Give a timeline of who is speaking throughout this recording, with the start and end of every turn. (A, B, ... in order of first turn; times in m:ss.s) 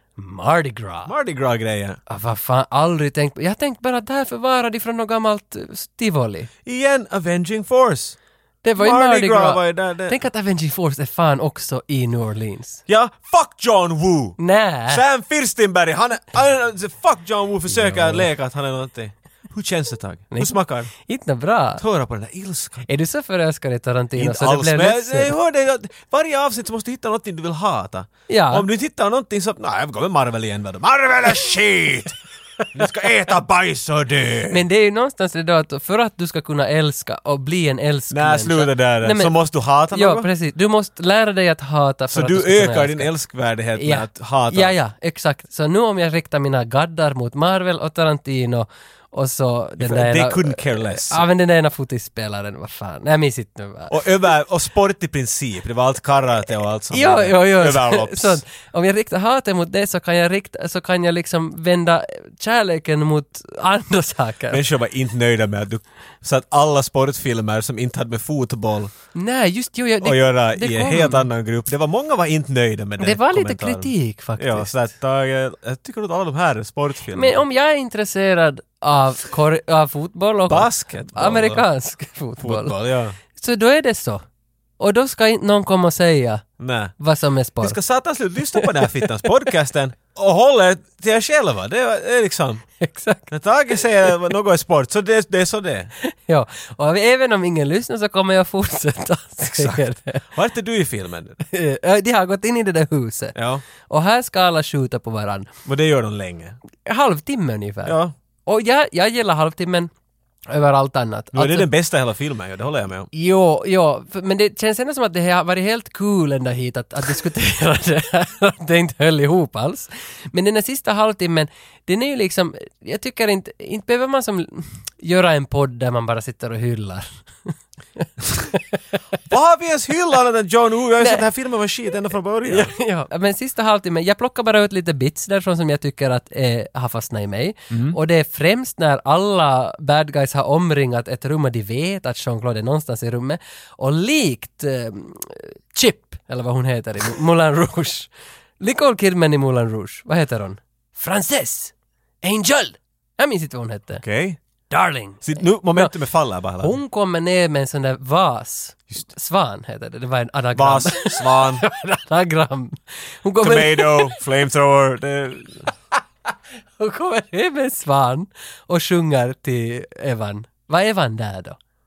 0:00.2-0:01.1 A
0:01.1-0:02.0 B
0:02.1-0:06.5 A
0:06.6-0:08.2 B
0:08.6-0:12.8 A
0:08.8-0:10.2 B
0:12.9-0:20.9 B
0:14.4-0:15.0 A
0:17.7-0:18.3 A
0:20.3-0:21.8 A
0:21.8-0:22.9 B
0:22.9-0:25.3 A
0:24.2-0:32.2 B
0:28.3-0:28.7 A
0:32.7-0:34.6 B
0:34.5-0:39.3 A
0:38.1-0:40.3 B
0:39.9-0:43.1 A
0:42.1-0:44.8 B
0:43.8-0:54.0 A
0:49.8-0:51.2 B
0:53.9-0:58.4 B
0:56.9-1:04.6 A
1:04.5-1:08.9 B
1:09.2-1:11.3 A
1:10.0-1:17.4 B
1:13.0-1:14.7 A
1:17.1-1:22.8 A
1:20.5-1:21.7 B
1:22.4-1:23.2 B
1:23.3-1:24.2 A
1:24.8-1:26.5 A
1:26.6-1:27.0 B
1:27.0-1:27.8 A
1:27.6-1:32.7 B
1:28.5-1:29.1 A
1:32.8-1:33.3 A
1:33.3-1:35.9 B
1:36.0-1:40.2 A
1:39.4-1:41.4 B
1:41.4-1:43.4 A
1:43.4-1:43.6 B
1:43.9-1:45.5 A
1:45.7-1:46.6 B
1:46.8-1:49.9 A
1:47.8-1:48.1 B
1:50.5-1:51.7 A
1:51.3-1:53.1 B
1:53.1-2:08.8 A
2:09.3-2:12.7 B
2:12.4-2:34.0 A
2:17.7-2:18.0 B
2:34.0-2:34.4 B
2:34.7-2:36.0 A
2:35.2-2:36.8 B
2:36.6-2:44.2 A
2:40.6-2:41.6 B
2:43.4-2:45.7 B
2:46.8-2:51.6 A